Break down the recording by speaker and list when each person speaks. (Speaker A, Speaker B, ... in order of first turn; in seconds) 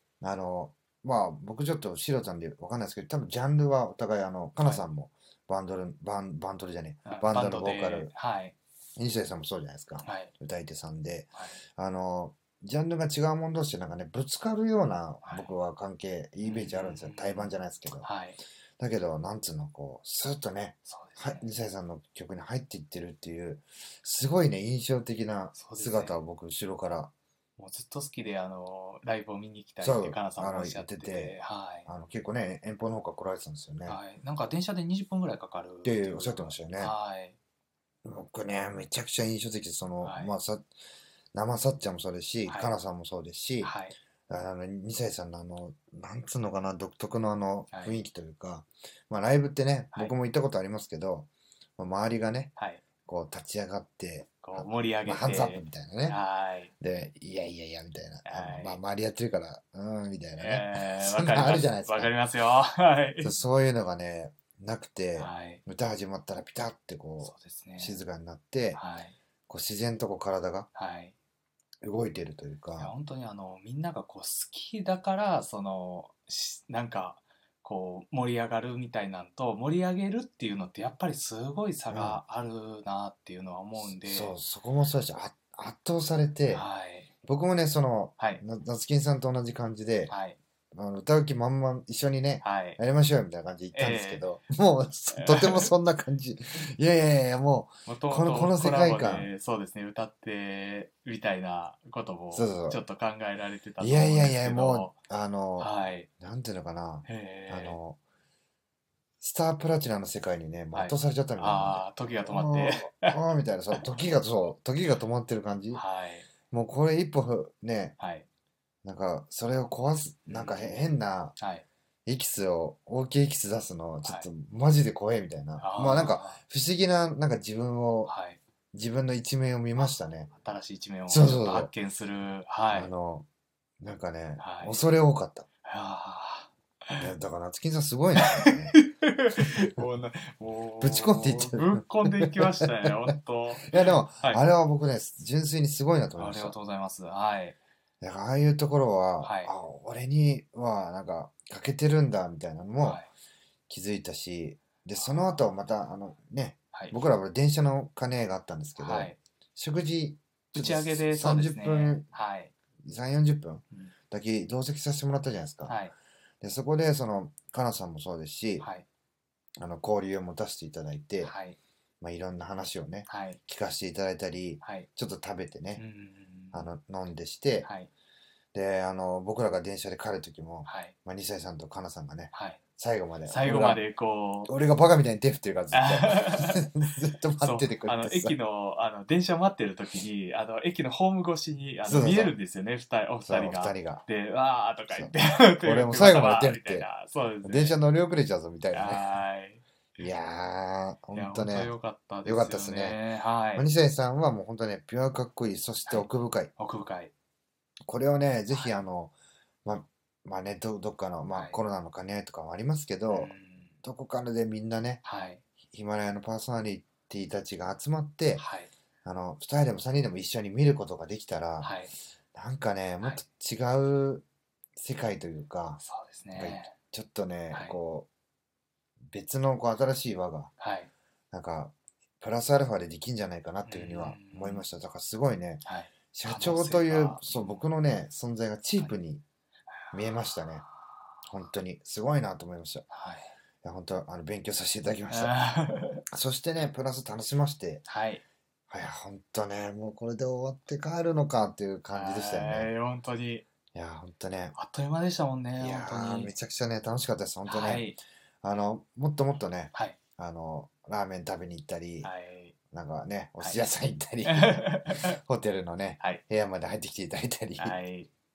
Speaker A: 0.2-8.1, 9.0-18.1, 18.8-27.1, 29.8-34.0, 35.8-36.9, 38.0-40.7, 41.3-43.7, 44.3-52.5, 53.0-56.2, 56.8-62.1, 63.2-68.8, 69.5-70.7, 71.8-72.9, 81.9-82.2, 83.8-86.7, 87.2-90.1, 90.7-99.3, 102.3-102.8, 103.8-108.0, 109.2-115.8, 116.5-118.0, 118.8-121.3, 122.0-128.1, 128.7-130.3, 131.1-131.7, 132.7-133.2, 133.8-135.5, 137.0-138.8, 139.4-139.8, 140.8-143.1, 143.6-146.6, 148.0-153.0, 153.7-162.1, 162.8-165.8, 166.4-168.7, 169.6-171.3, 172.0-175.8, 176.5-177.7, 178.5-183.8, 184.5-188.3, 191.8-192.3, 193.2-194.1, 194.9-196.9, 197.4-199.1, 200.0-201.7, 202.2-203.0, 203.5-206.5, 207.9-209.1, 209.6-215.0, 215.7-218.4, 219.0-221.7, 222.3-224.2, 224.8-225.8, 226.3-228.1, 229.1-230.5, 231.3-239.2, 239.9-240.7, 241.2-242.8, 243.6-245.3, 246.1-247.8, 248.7-252.7, 253.7-254.5, 255.6-257.9, 258.4-262.1, 262.7-267.8
Speaker B: 7.0-8.5, 10.0-10.3, 15.2-15.5, 16.4-18.4, 20.9-21.5, 25.5-26.2, 27.6-31.9, 33.9-37.4, 40.0-40.3, 42.5-42.7, 43.6-43.9, 52.6-52.8, 54.4-56.7, 58.2-58.8, 60.4-63.3, 65.2-65.6, 67.2-68.0, 68.7-69.2, 70.7-71.1, 72.8-84.3, 86.5-87.1, 90.1-90.4, 92.4-92.8, 93.7-94.3, 95.1-95.7, 97.8-104.9, 105.6-106.1, 107.0-107.8, 110.7-113.2, 115.7-116.3, 118.0-118.2, 120.3-121.6, 125.6-126.4, 128.1-128.4, 129.7-132.9, 134.4-134.8, 135.6-137.1, 138.1-144.4, 146.2-147.6, 149.2-149.5, 152.8-153.1, 155.0-155.4, 158.8-159.2, 160.5-162.5, 165.7-165.9, 168.6-168.8, 171.2-171.6, 173.1-173.4, 174.6-174.9, 175.8-176.7, 177.6-177.9, 180.6-180.9, 182.3-182.6, 183.2-184.5, 185.7-186.6, 187.4-197.8, 198.7-199.6, 201.1-203.7, 205.9-207.1, 208.5-208.8, 211.3-211.6, 213.1-213.8, 215.0-215.4, 218.4-218.7, 221.6-221.9, 225.8-226.7, 227.5-227.8, 230.6-230.9, 233.6-234.6, 235.6-237.6, 239.9-240.4, 242.9-243.3, 245.1-246.0, 247.8-248.2, 251.9-253.4, 254.5-256.3, 257.4-258.0, 262.0-262.5, 263.4-263.7, 264.2-265.2, 267.6-268.1